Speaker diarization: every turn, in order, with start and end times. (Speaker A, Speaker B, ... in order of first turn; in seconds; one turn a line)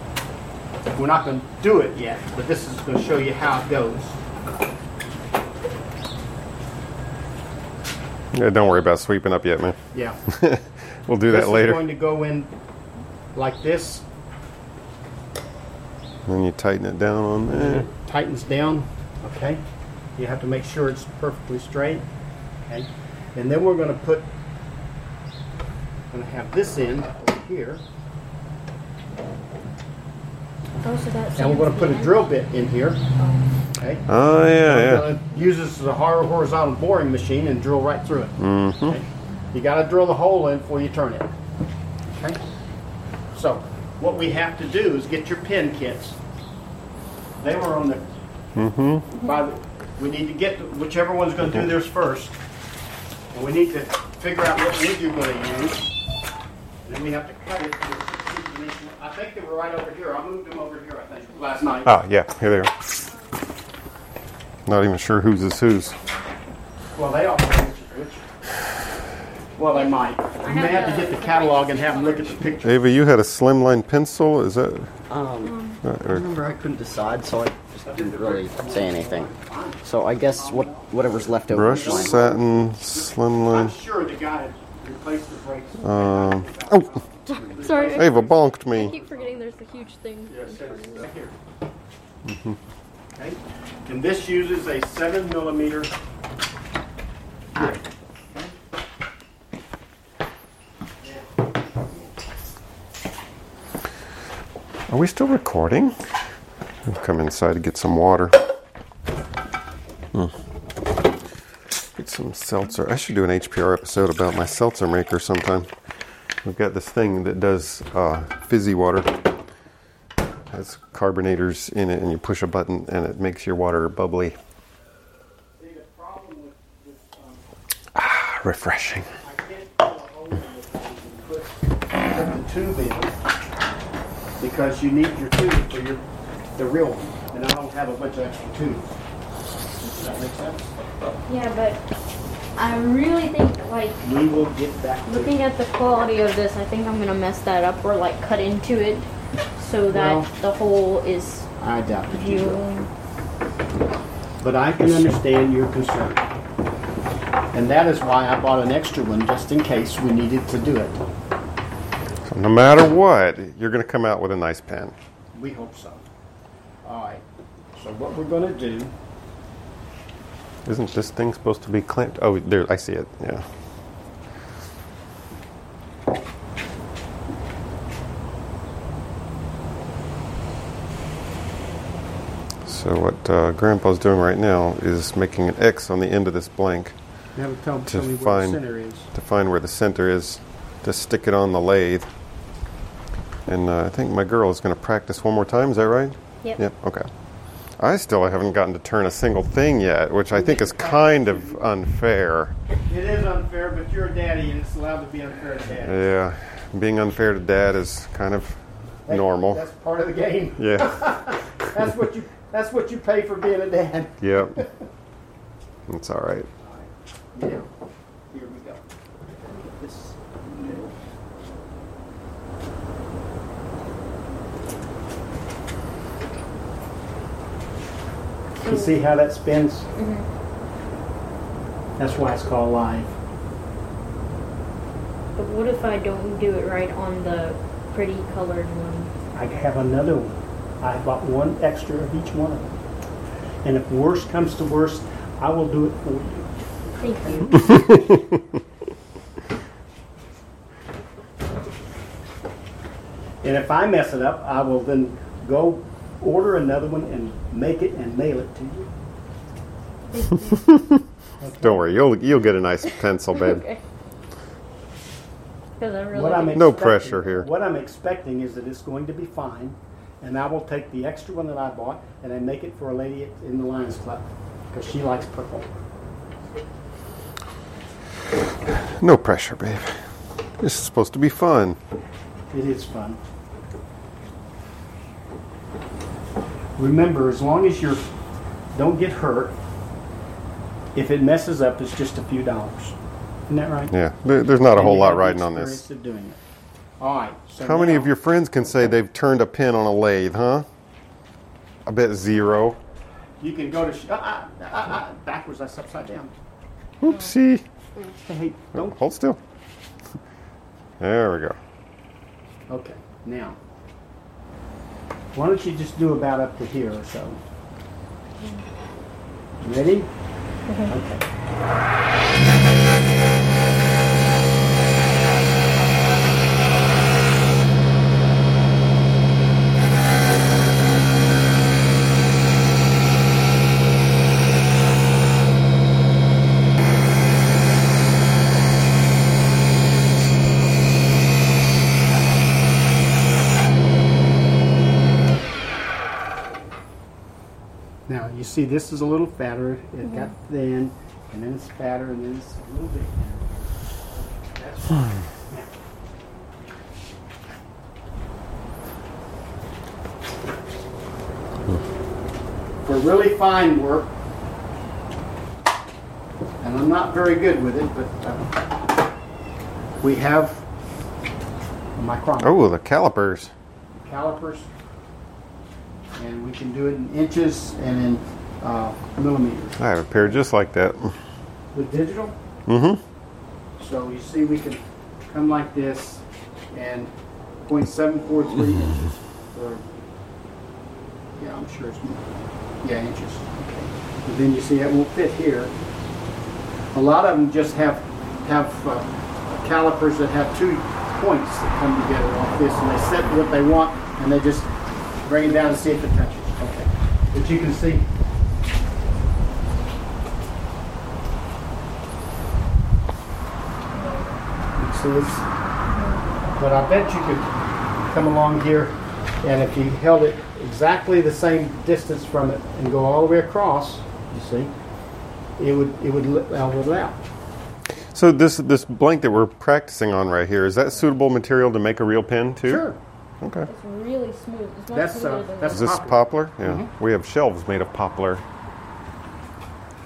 Speaker A: 0.9-4.2
Speaker B: 8.3-11.9
Speaker A: 9.9-10.2
Speaker A: 11.3-12.5
Speaker A: 13.3-14.0
Speaker B: 16.3-17.9
Speaker A: 17.5-19.6
Speaker A: 20.2-22.1
Speaker A: 22.7-24.3
Speaker A: 26.1-27.8
Speaker C: 30.8-32.3
Speaker A: 31.4-33.0
Speaker C: 33.2-33.5
Speaker A: 33.8-34.0
Speaker B: 34.1-35.1
Speaker A: 34.6-41.3
Speaker B: 38.4-39.0
Speaker A: 42.1-42.4
Speaker A: 43.4-46.2
Speaker A: 47.4-48.0
Speaker B: 48.5-49.0
Speaker A: 49.2-52.3
Speaker A: 53.3-55.9
Speaker A: 56.9-62.0
Speaker B: 61.8-62.9
Speaker B: 64.7-66.0
Speaker A: 66.9-68.2
Speaker A: 69.6-72.8
Speaker C: 69.7-72.5
Speaker B: 72.6-74.9
Speaker D: 75.1-79.3
Speaker C: 75.4-75.8
Speaker B: 75.8-76.3
Speaker A: 77.8-89.3
Speaker D: 79.8-82.3
Speaker B: 81.5-83.8
Speaker B: 85.8-87.0
Speaker C: 87.3-91.0
Speaker B: 87.9-89.0
Speaker A: 90.3-91.3
Speaker B: 92.2-92.6
Speaker A: 93.2-95.9
Speaker B: 104.9-106.0
Speaker B: 106.8-108.4
Speaker B: 112.0-115.7
Speaker B: 116.4-119.3
Speaker B: 120.5-124.4
Speaker A: 125.6-127.4
Speaker B: 128.0-129.1
Speaker A: 129.2-131.6
Speaker A: 132.1-133.1
Speaker A: 134.4-136.0
Speaker A: 136.6-138.8
Speaker A: 139.8-140.7
Speaker C: 141.3-141.8
Speaker C: 142.6-144.0
Speaker A: 144.0-145.4
Speaker C: 145.1-151.5
Speaker A: 149.9-150.3
Speaker A: 151.6-152.6
Speaker C: 152.1-152.9
Speaker A: 154.4-156.3
Speaker B: 154.8-155.1
Speaker A: 157.5-161.0
Speaker B: 162.3-164.9
Speaker A: 165.3-166.0
Speaker A: 166.8-167.2
Speaker A: 167.8-168.9
Speaker B: 170.7-173.5
Speaker B: 182.7-187.0
Speaker A: 187.4-189.1
Speaker B: 187.9-192.1
Speaker B: 193.5-197.1
Speaker B: 197.8-202.6
Speaker A: 200.3-201.6
Speaker A: 202.9-206.0
Speaker B: 205.8-209.6
Speaker A: 209.1-214.7
Speaker B: 210.6-211.9
Speaker B: 214.2-214.6
Speaker B: 215.9-216.5
Speaker A: 216.6-217.7
Speaker A: 218.3-218.8
Speaker A: 219.4-220.9
Speaker C: 228.6-229.0
Speaker A: 228.6-229.9
Speaker C: 229.9-230.3
Speaker A: 232.0-233.1
Speaker C: 235.4-239.1
Speaker A: 239.3-242.7
Speaker A: 243.6-246.5
Speaker C: 247.0-248.1
Speaker A: 247.2-248.0
Speaker A: 253.4-258.9
Speaker C: 260.1-260.8
Speaker A: 261.4-261.8
Speaker B: 261.6-263.7
Speaker C: 263.3-263.8
Speaker C: 265.8-267.0
Speaker A: 266.1-275.7
Speaker B: 266.5-267.5
Speaker B: 278.8-281.8
Speaker A: 282.5-283.2
Speaker A: 286.8-288.0
Speaker A: 288.7-289.5
Speaker A: 290.9-293.0
Speaker A: 293.5-293.9
Speaker B: 293.9-295.8
Speaker A: 294.7-296.4
Speaker A: 297.0-298.1
Speaker B: 297.6-300.7
Speaker B: 301.9-302.8
Speaker A: 303.4-306.3
Speaker B: 307.0-307.6
Speaker C: 307.0-307.3
Speaker A: 308.2-309.0
Speaker B: 308.7-309.4
Speaker B: 311.0-311.6
Speaker A: 312.7-313.6
Speaker A: 315.3-317.4
Speaker A: 319.6-320.1
Speaker C: 320.7-320.9
Speaker A: 320.9-321.2
Speaker A: 348.1-355.7
Speaker A: 362.8-364.1
Speaker A: 366.6-368.7
Speaker A: 370.0-370.6
Speaker A: 372.0-372.6
Speaker B: 372.4-373.5
Speaker A: 374.0-374.7
Speaker A: 376.1-379.8
Speaker B: 379.8-381.2
Speaker A: 381.7-382.4
Speaker B: 382.7-383.0
Speaker A: 383.8-387.1
Speaker A: 387.7-389.8
Speaker A: 391.4-392.3
Speaker A: 392.8-395.7
Speaker A: 396.9-404.7
Speaker A: 405.2-408.1
Speaker C: 413.9-414.4
Speaker A: 414.8-415.4
Speaker C: 415.9-416.2
Speaker A: 416.6-417.5
Speaker A: 418.1-424.7
Speaker A: 425.6-427.2
Speaker B: 428.1-432.9
Speaker A: 432.6-433.0
Speaker B: 433.4-433.7
Speaker C: 433.7-436.0
Speaker A: 434.9-436.9
Speaker B: 435.7-438.4